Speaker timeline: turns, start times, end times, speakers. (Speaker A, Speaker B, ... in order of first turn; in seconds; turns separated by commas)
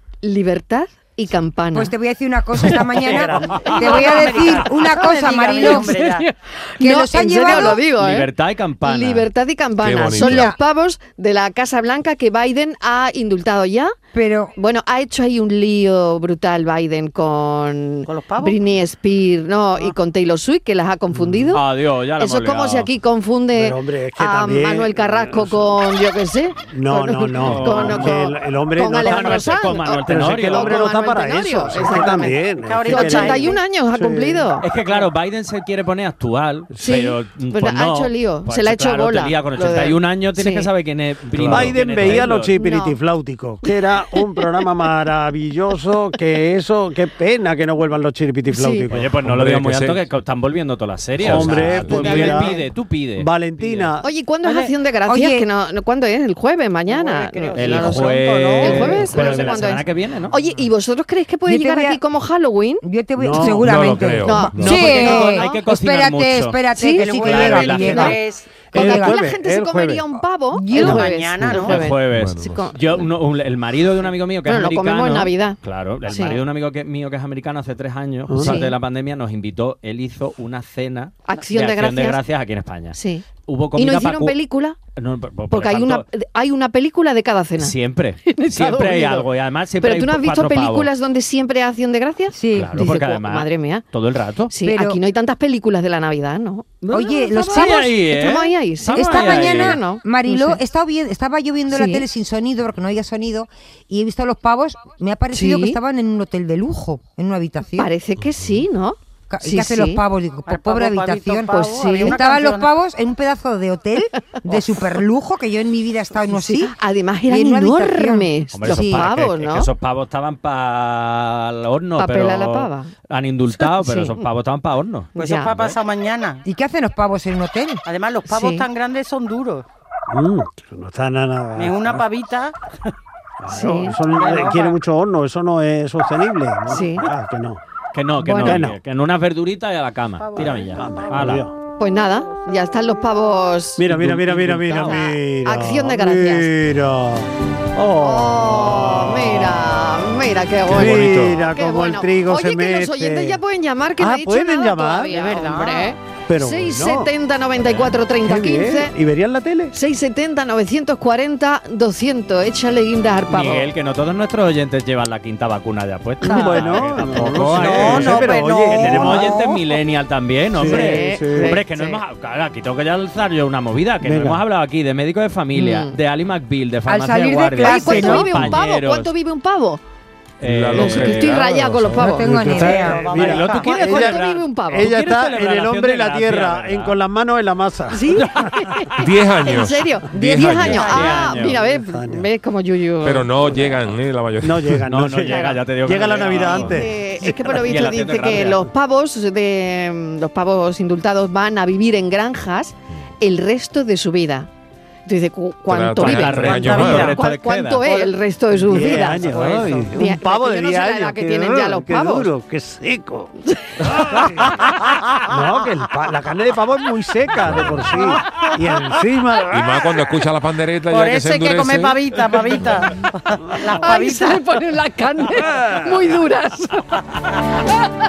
Speaker A: 0.2-1.9, Speaker B: 1.7-6.0, Speaker C: 3.0-6.3, Speaker A: 5.6-8.3, Speaker B: 6.8-7.8, Speaker D: 7.6-9.3, Speaker A: 8.8-13.9, Speaker E: 9.8-10.6, Speaker B: 10.2-10.6, Speaker B: 14.1-14.6, Speaker A: 14.6-21.6, Speaker C: 18.1-18.6, Speaker F: 21.1-21.5, Speaker D: 21.5-22.9, Speaker A: 22.2-34.7, Speaker F: 23.5-25.8, Speaker F: 26.7-34.5, Speaker D: 27.4-28.2, Speaker D: 29.0-30.9, Speaker C: 32.0-33.6, Speaker D: 34.6-42.5, Speaker A: 36.8-40.7, Speaker F: 41.4-49.1, Speaker E: 41.4-42.2, Speaker A: 42.1-43.0, Speaker A: 43.7-44.4, Speaker A: 48.5-48.9, Speaker D: 48.9-53.9, Speaker E: 49.2-50.0, Speaker E: 51.2-52.4, Speaker F: 51.2-52.6, Speaker A: 52.1-52.6, Speaker F: 53.2-54.1, Speaker A: 54.0-62.8, Speaker C: 54.5-54.7, Speaker B: 55.1-55.5, Speaker C: 56.9-59.5, Speaker D: 57.5-60.3, Speaker F: 58.8-59.6, Speaker B: 61.5-62.0, Speaker B: 62.8-68.2, Speaker F: 63.2-64.0, Speaker E: 63.6-65.0, Speaker A: 64.2-65.5, Speaker D: 64.6-66.6, Speaker A: 66.8-68.2, Speaker C: 67.0-68.6, Speaker D: 67.2-68.0, Speaker F: 68.7-70.2, Speaker A: 68.7-73.1, Speaker B: 68.7-69.2, Speaker B: 70.5-71.1, Speaker C: 70.7-71.8, Speaker D: 71.5-84.4, Speaker E: 72.1-72.7, Speaker A: 74.5-76.4, Speaker F: 78.3-78.6, Speaker A: 78.4-78.7, Speaker A: 81.3-82.2, Speaker A: 82.9-84.8, Speaker D: 85.0-86.0, Speaker A: 85.5-87.8, Speaker D: 87.6-90.9, Speaker A: 88.3-89.2, Speaker A: 89.8-93.8, Speaker B: 92.3-92.9, Speaker D: 92.5-94.5, Speaker A: 94.5-100.6, Speaker B: 94.6-95.0, Speaker D: 96.8-99.8, Speaker B: 96.9-97.9, Speaker B: 98.9-107.9, Speaker A: 101.7-102.1, Speaker A: 105.3-105.8, Speaker A: 107.8-110.0, Speaker E: 108.4-108.7, Speaker B: 109.3-116.8, Speaker C: 110.5-112.7, Speaker A: 111.5-112.2, Speaker A: 116.3-119.7, Speaker B: 117.3-119.1, Speaker D: 118.5-125.8, Speaker A: 122.0-122.9, Speaker A: 123.6-124.2, Speaker C: 125.2-126.4, Speaker A: 125.2-125.5, Speaker B: 126.5-127.8, Speaker C: 127.8-129.7, Speaker A: 128.3-128.6, Speaker F: 130.1-132.1, Speaker C: 131.6-132.6, Speaker F: 133.4-137.6, Speaker A: 133.5-134.0, Speaker C: 133.9-134.8, Speaker A: 136.7-137.1, Speaker D: 137.9-141.5, Speaker A: 138.2-138.6, Speaker F: 138.4-138.8, Speaker C: 140.2-143.4, Speaker F: 140.4-141.5, Speaker A: 141.8-143.9, Speaker F: 143.8-149.8, Speaker D: 143.8-145.0, Speaker A: 144.8-146.5, Speaker A: 148.0-158.9, Speaker F: 150.7-153.4, Speaker D: 150.8-151.3, Speaker F: 154.0-155.2, Speaker C: 155.1-156.0, Speaker F: 156.3-157.1, Speaker F: 158.2-159.7, Speaker A: 159.7-163.7, Speaker D: 163.3-179.1, Speaker F: 166.2-169.4, Speaker C: 167.6-169.5, Speaker F: 170.5-171.6, Speaker A: 170.6-172.0, Speaker F: 174.0-174.4, Speaker A: 175.6-175.9, Speaker B: 176.9-178.5, Speaker A: 177.6-179.8, Speaker D: 180.4-181.5, Speaker E: 180.4-182.0, Speaker A: 180.8-182.3, Speaker B: 181.9-183.1, Speaker F: 182.2-188.5, Speaker C: 182.6-184.1, Speaker D: 183.1-187.0, Speaker A: 183.3-184.9, Speaker A: 187.9-193.6, Speaker E: 189.0-191.0, Speaker C: 190.6-191.2, Speaker D: 190.8-191.6, Speaker F: 191.5-192.3, Speaker E: 193.0-194.8, Speaker F: 194.4-197.7, Speaker D: 194.9-196.8, Speaker A: 195.3-195.6, Speaker A: 196.1-204.5, Speaker D: 197.5-198.7, Speaker A: 205.1-212.3, Speaker E: 205.7-207.2, Speaker D: 206.0-207.9, Speaker C: 206.5-207.1, Speaker F: 208.6-220.1, Speaker C: 208.8-209.9, Speaker A: 213.5-213.7, Speaker E: 217.4-217.9, Speaker E: 219.5-222.7, Speaker C: 220.9-224.4, Speaker A: 223.8-227.0